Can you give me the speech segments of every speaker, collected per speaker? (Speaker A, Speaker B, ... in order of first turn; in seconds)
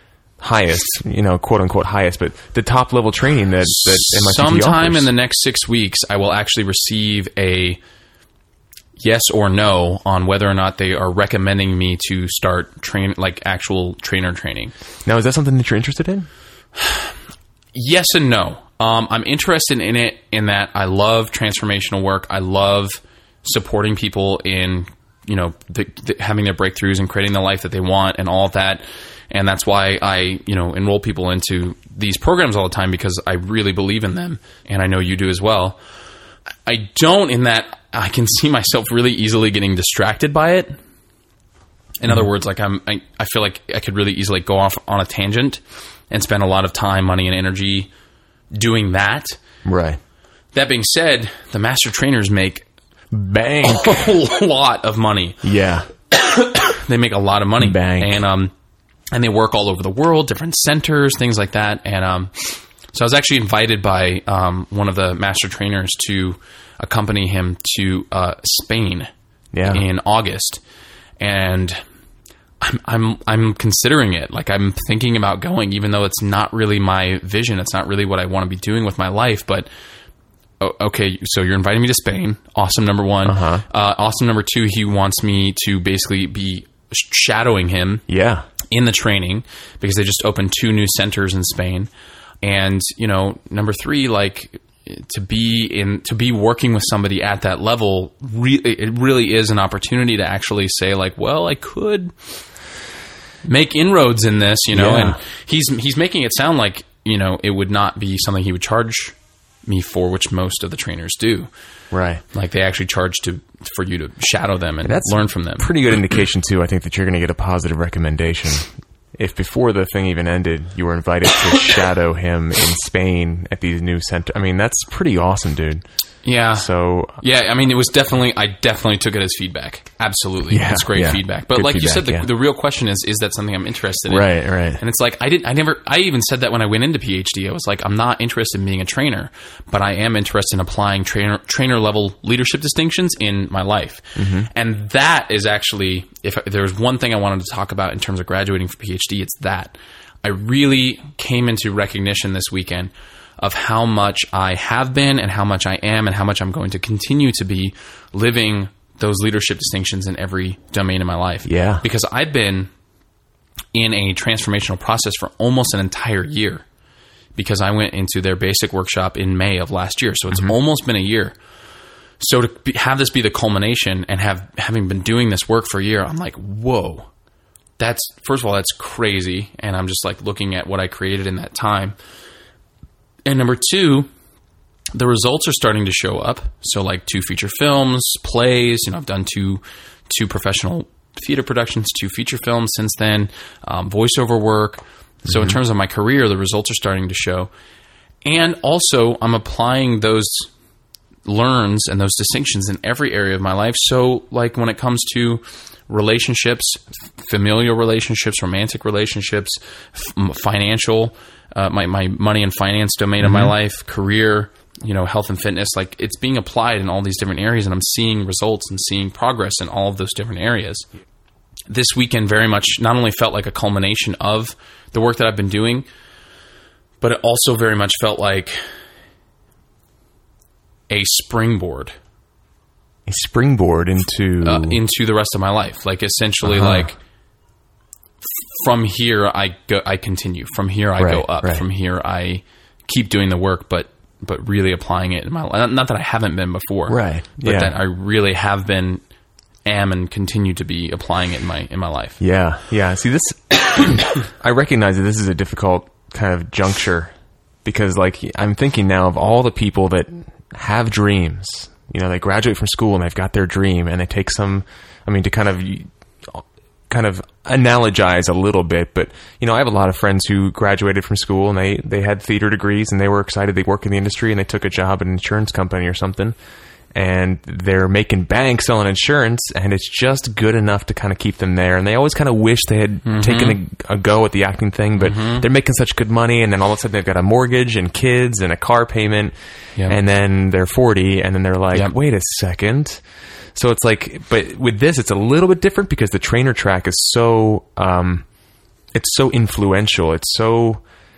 Speaker A: 0.4-5.1, 15.1-16.3, 49.6-50.0, 53.1-54.1, 55.4-55.9, 57.6-58.2, 69.5-69.8, 83.2-83.6, 88.1-88.5, 104.7-105.2, 111.9-112.2, 114.8-125.8, 126.5-127.2, 130.5-132.3, 134.1-134.8, 144.2-144.5, 161.4-161.8, 195.3-195.6, 213.2-213.5, 233.1-234.8, 236.4-236.9, 241.0-241.6, 246.9-247.7, 252.2-257.1, 257.6-276.4, 276.9-298.3, 298.9-300.8
Speaker B: 3.6-7.8, 9.0-14.7, 17.7-35.8, 36.7-40.8, 42.0-47.9, 48.5-49.4, 50.5-52.6, 53.6-55.4, 56.1-58.5, 59.1-69.1, 69.7-70.6, 71.2-71.8, 72.6-79.7, 80.6-88.0, 88.7-91.9, 92.4-102.4, 103.4-109.2, 109.7-111.5, 112.3-115.7, 126.2-162.7, 163.7-166.7, 167.3-171.3, 172.2-177.1, 177.8-181.9, 183.2-184.1, 184.9-197.5, 198.2-200.5, 201.3-220.9, 221.7-225.9, 227.0-228.7, 230.9-231.9, 234.4-237.0, 238.3-249.0, 249.7-252.2, 283.1-283.6, 285.0-285.4